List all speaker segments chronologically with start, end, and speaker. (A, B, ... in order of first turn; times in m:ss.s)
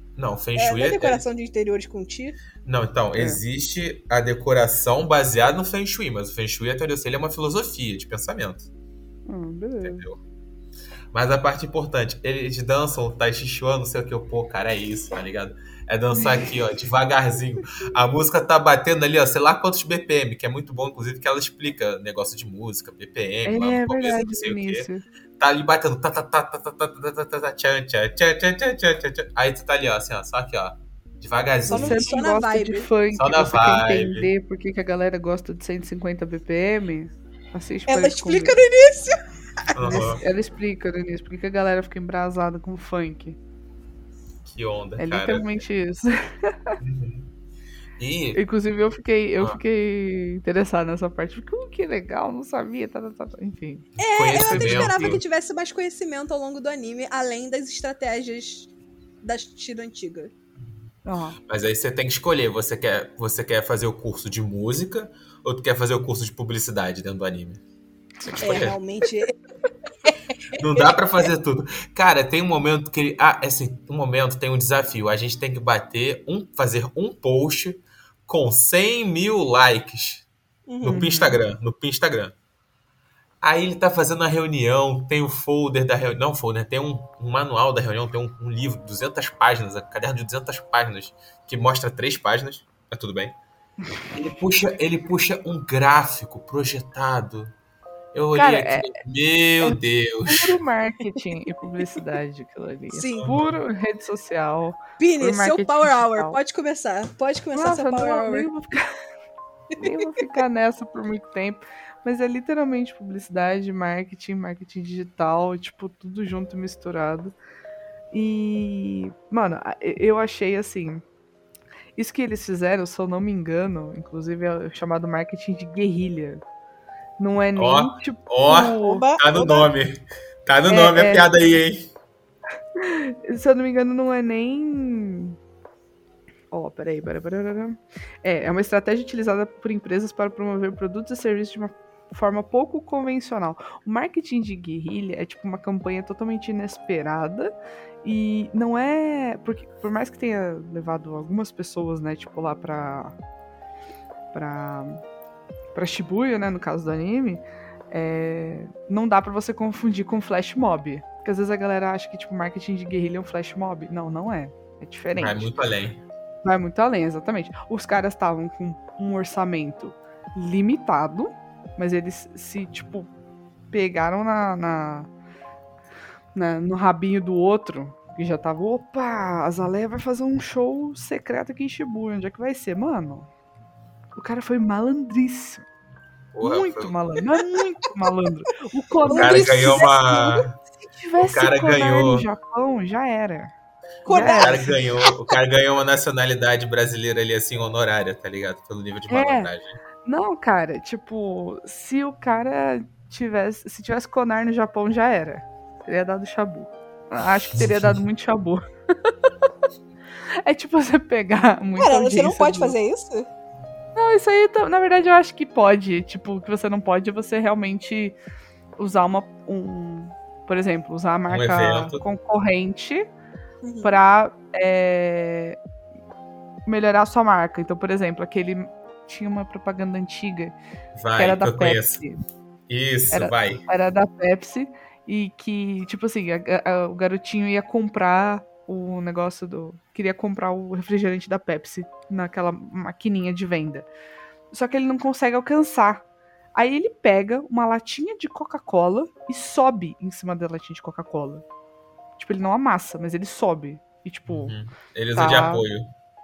0:00.2-0:01.2 A
0:00.6-0:02.4 B
0:02.6-0:08.7 A
0:03.2-0:03.4 C
0:09.3-0:10.1 C
0:09.8-0:10.2 A
0:11.1-0:24.9 A
0:16.2-0:16.4 C
0:23.4-0:25.0 C
0:25.4-0:32.1 A
0:31.7-0:32.9 B
0:31.7-0:38.6 C
0:33.1-0:34.3 A
0:37.9-0:39.2 B
0:39.7-0:40.2 A
0:39.8-0:43.4 C
0:44.4-0:45.5 A
0:45.0-0:46.8 C
0:46.8-0:47.3 A
0:48.0-0:48.4 A
0:48.3-0:55.2 C
0:54.0-0:58.7 B
0:54.0-0:55.2 A
0:59.2-1:00.3 B
1:01.0-1:01.4 C
1:01.4-1:07.6 A
1:08.3-1:08.8 A
1:08.4-1:09.3 B
1:10.0-1:10.9 B
1:10.6-1:20.3 A
1:20.7-1:21.1 B
1:20.8-1:22.3 A
1:20.8-1:21.4 C
1:23.4-1:33.4 A
1:34.1-1:37.5 A
1:38.1-1:40.6 A
1:38.3-1:39.0 C
1:39.6-1:46.4 C
1:42.9-1:43.4 B
1:43.2-1:43.6 A
1:45.0-1:48.5 B
1:47.5-1:48.9 C
1:49.8-1:57.3 C
1:58.1-2:01.0 C
2:02.0-2:06.4 C
2:07.2-2:09.0 C
2:07.6-2:11.9 A
2:08.5-2:09.7 B
2:10.7-2:11.3 C
2:12.8-2:15.4 C
2:16.5-2:27.5 C
2:28.0-2:33.1 C
2:34.3-2:35.0 C
2:35.7-2:45.5 C
2:45.2-2:46.0 A
2:46.4-2:53.1 C
2:53.7-2:55.1 C
2:56.3-3:03.3 C
3:04.1-3:05.6 C
3:06.3-3:06.9 A
3:06.4-3:13.5 C
3:09.1-3:09.9 B
3:09.1-3:10.5 A
3:11.2-3:12.2 A
3:14.0-3:15.1 B
3:14.1-3:14.6 C
3:14.1-3:19.8 A
3:19.1-3:19.5 C
3:20.0-3:29.3 C
3:27.6-3:27.9 A
3:30.4-3:32.8 C
3:31.8-3:33.3 B
3:34.0-3:38.2 C
3:38.8-3:43.1 C
3:41.3-3:42.0 A
3:43.6-3:44.0 B
3:43.8-3:45.6 C
3:46.6-3:50.5 C
3:51.0-3:52.0 A
3:51.2-3:52.2 C
3:52.7-3:53.6 A
3:53.1-4:03.9 C
4:04.5-4:06.0 C
4:06.6-4:11.4 C
4:12.2-4:14.6 C
4:14.3-4:15.9 A
4:15.1-4:15.6 C